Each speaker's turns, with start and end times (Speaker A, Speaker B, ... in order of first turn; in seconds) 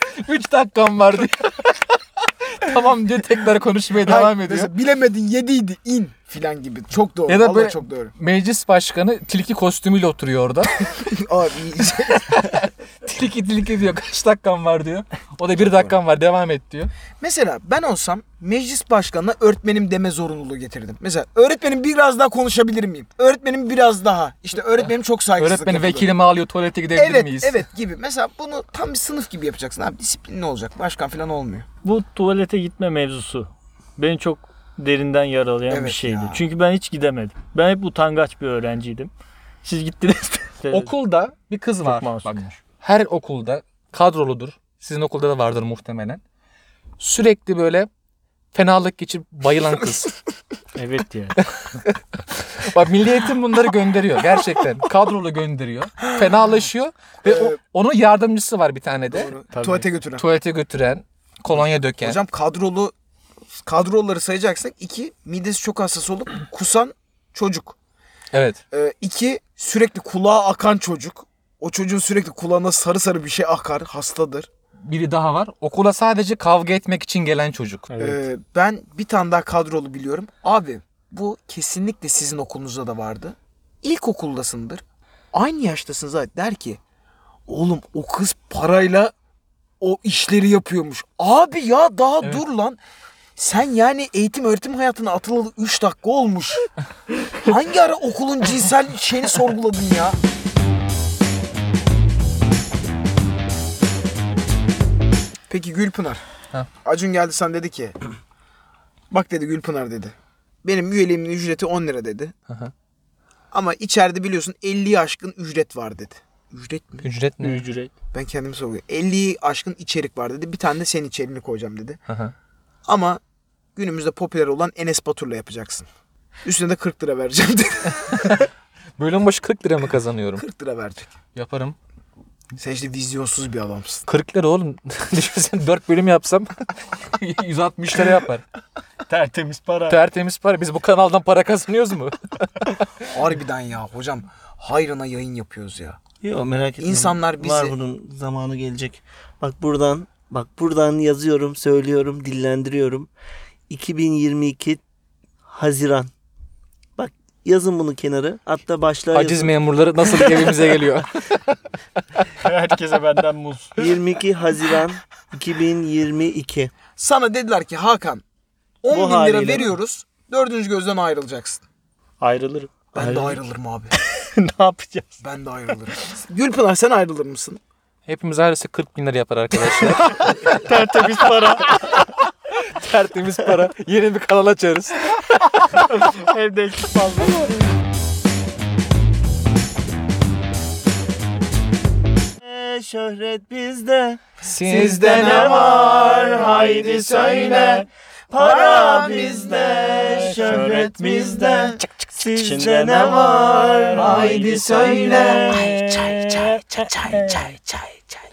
Speaker A: 0.2-2.0, 2.6-4.7, 7.3-10.7, 12.1-16.9, 24.8-27.6, 40.7-46.2, 47.0-47.9, 48.5-50.1, 52.6-59.3, 60.1-62.2, 68.3-68.6, 74.8-77.8, 117.0-117.6, 122.1-122.3, 128.1-128.5, 129.0-130.4, 131.3-131.8, 134.1-138.4, 139.9-142.8, 159.1-161.6, 178.1-180.6, 181.6-182.1, 182.7-186.1, 194.4-195.1, 206.8-207.9
Speaker B: 4.0-8.1, 11.0-12.3, 17.2-26.1, 26.9-31.6, 35.7-36.4, 57.2-57.6, 59.1-60.2, 62.0-62.9, 63.6-67.7, 68.7-74.5, 78.0-86.8, 87.5-89.1, 89.8-92.8, 93.3-96.7, 97.4-100.2, 105.5-106.2, 106.8-108.0, 109.1-112.3, 113.5-117.1, 118.1-122.0, 122.9-123.2, 123.8-125.9, 126.4-128.3, 130.4-131.1, 132.6-134.0, 143.1-146.0, 146.8-147.7, 167.0-168.2, 168.8-171.6, 172.9-173.9, 175.2-177.6, 194.5-197.8, 198.3-201.7, 203.9-205.6
Speaker C: 31.8-39.1, 39.6-40.9, 41.8-42.6, 50.7-51.4, 59.5-59.9, 77.9-78.2, 117.4-117.9, 139.1-140.0, 162.4-163.8, 172.2-173.4, 174.0-175.2, 180.5-181.7, 185.9-187.5, 196.5-197.8, 199.3-201.7, 202.3-207.6
Speaker D: 146.2-153.1, 153.7-154.8, 155.5-156.1, 156.9-159.5, 163.8-166.7, 168.9-169.7, 192.4-194.2, 194.8-205.8